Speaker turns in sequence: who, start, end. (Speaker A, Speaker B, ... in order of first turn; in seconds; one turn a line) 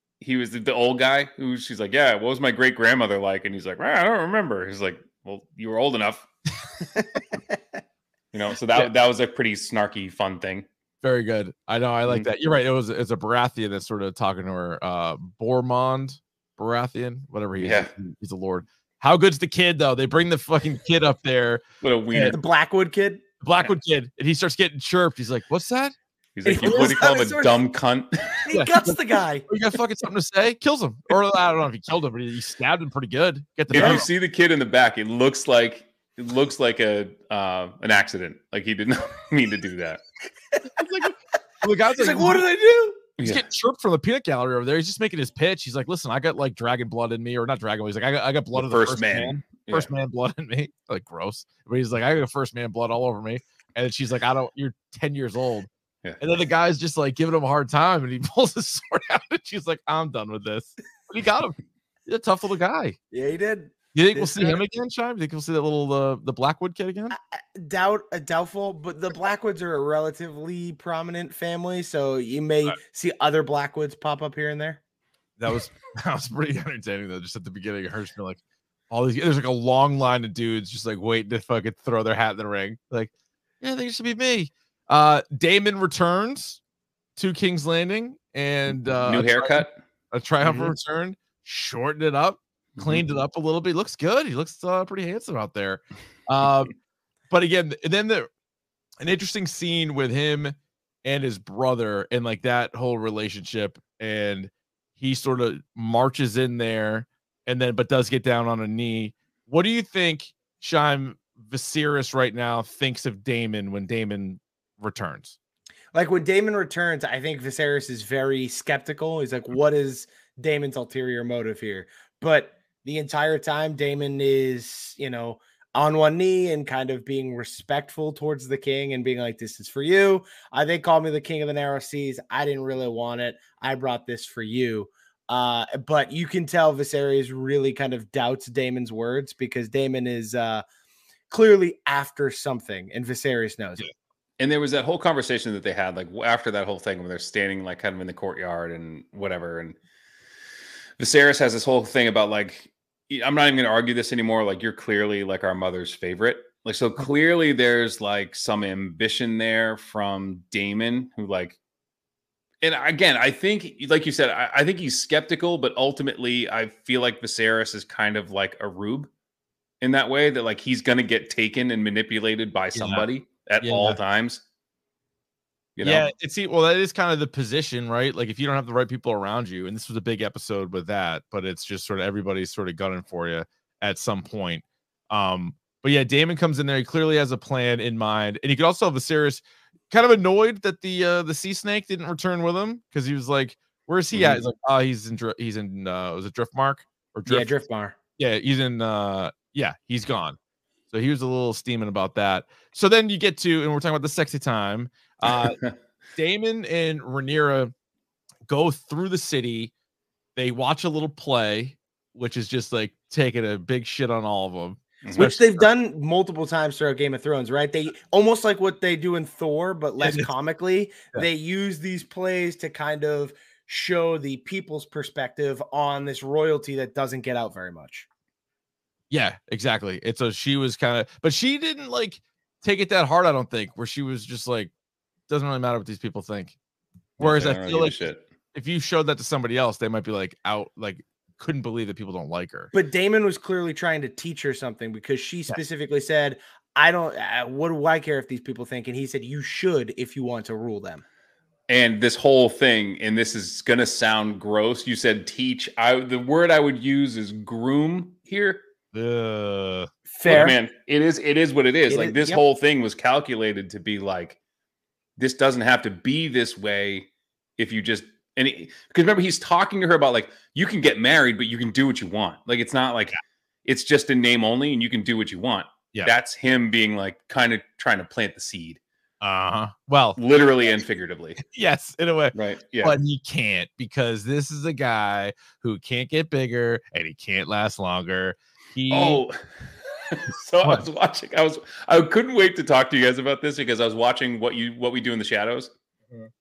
Speaker A: 0.2-6.3
Speaker A: 8.3-10.7
Speaker B: 11.0-22.4
Speaker A: 17.6-17.9
Speaker A: 21.8-22.4
Speaker C: 22.3-23.2
Speaker B: 23.4-25.9
Speaker A: 26.4-28.4
Speaker C: 26.4-27.6
Speaker C: 28.5-29.5
Speaker B: 28.5-34.1
Speaker A: 33.7-40.0
Speaker B: 40.7-42.5
Speaker C: 42.0-43.1
Speaker A: 43.2-43.4
Speaker B: 43.2-55.7
Speaker A: 48.5-49.9
Speaker B: 56.2-61.6
Speaker B: 62.1-63.0
Speaker C: 63.1-64.6
Speaker B: 63.9-67.2
Speaker C: 67.1-74.8
Speaker B: 75.4-78.4
Speaker B: 78.9-83.1
Speaker B: 83.6-86.6
Speaker B: 87.2-96.7
Speaker A: 89.1-89.7
Speaker A: 90.4-90.7
Speaker A: 92.8-93.0
Speaker B: 97.3-98.3
Speaker B: 99.0-115.4
Speaker C: 115.9-140.6
Speaker C: 141.3-143.8
Speaker A: 144.4-149.8
Speaker A: 151.0-161.6
Speaker A: 162.6-169.1
Speaker A: 169.8-174.4
Speaker B: 172.8-173.1
Speaker B: 173.6-174.0
Speaker A: 175.8-176.1
Speaker B: 175.8-197.5
Speaker A: 194.1-194.4
Speaker C: 197.3-198.0
Speaker B: 198.2-200.4
Speaker B: 200.9-205.6
Speaker A: 205.3-205.7
Speaker B: 206.2-207.7
Speaker B: 208.5-209.7
Speaker B: 210.4-215.7
Speaker C: 215.2-228.1
Speaker B: 220.0-220.3
Speaker B: 229.1-234.7
Speaker B: 235.3-236.6
Speaker A: 237.2-238.2
Speaker B: 237.2-242.7
Speaker C: 242.7-251.0
Speaker A: 251.7-258.6
Speaker B: 258.9-260.5
Speaker C: 260.1-260.6
Speaker A: 260.2-264.4
Speaker C: 261.9-262.4
Speaker A: 265.2-278.8
Speaker B: 279.2-280.2
Speaker A: 280.2-281.4
Speaker B: 281.4-289.2
Speaker A: 282.3-283.0
Speaker A: 288.9-289.4
Speaker A: 290.1-295.7